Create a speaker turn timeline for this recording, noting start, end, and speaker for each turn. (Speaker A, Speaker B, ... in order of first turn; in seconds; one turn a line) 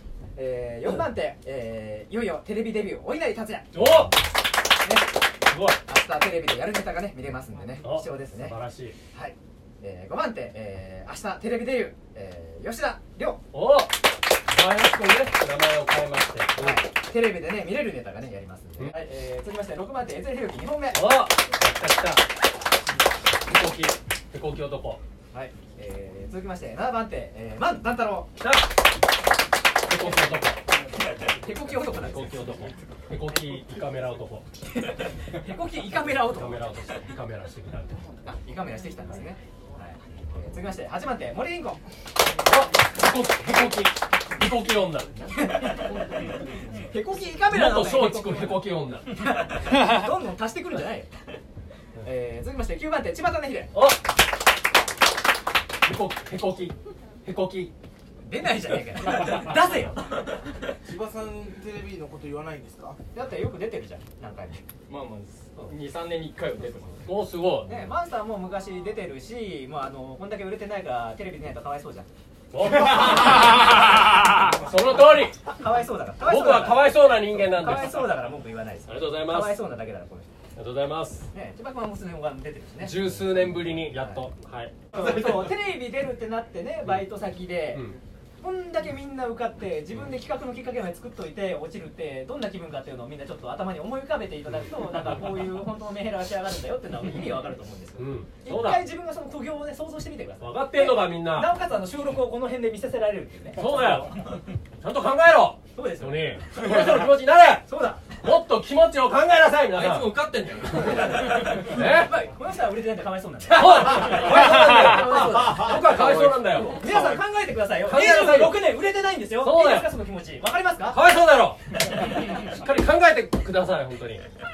Speaker A: 0.3-4.1
Speaker B: 3.7-4.2
Speaker A: 4.8-5.1
Speaker B: 5.5-5.8
Speaker A: 5.8-8.6
Speaker B: 7.8-9.0
Speaker A: 9.1-13.4
Speaker B: 13.5-16.8
Speaker A: 16.6-21.2
Speaker B: 20.9-22.2
Speaker B: 23.4-25.0
Speaker A: 25.3-28.4
Speaker B: 29.9-30.6
Speaker A: 30.9-32.7
Speaker B: 31.8-34.5
Speaker A: 34.7-36.8
Speaker B: 36.1-38.1
Speaker A: 38.2-41.8
Speaker B: 42.3-45.3
Speaker A: 45.3-48.6
Speaker B: 47.5-49.1
Speaker A: 49.1-51.1
Speaker A: 52.0-53.8
Speaker B: 53.7-54.0
Speaker B: 55.8-57.7
Speaker A: 58.2-60.6
Speaker C: 60.8-63.0
Speaker A: 63.1-64.6
Speaker D: 64.9-67.1
Speaker B: 67.0-67.9
Speaker A: 67.7-72.1
Speaker B: 72.5-73.8
Speaker B: 74.5-75.4
Speaker A: 75.4-80.4
Speaker B: 76.2-78.1
Speaker B: 78.9-79.6
Speaker B: 80.6-81.3
Speaker A: 81.3-84.2
Speaker B: 82.8-85.4
Speaker A: 84.9-104.3
Speaker B: 98.0-98.8
Speaker B: 100.4-101.5
Speaker B: 103.5-110.1
Speaker A: 105.7-106.4
Speaker A: 107.7-108.0
Speaker D: 109.7-111.6
Speaker A: 110.9-121.0
Speaker B: 111.5-112.2
Speaker B: 113.5-116.9
Speaker D: 114.0-115.6
Speaker B: 117.8-118.7
Speaker B: 119.3-119.9
Speaker B: 120.9-124.2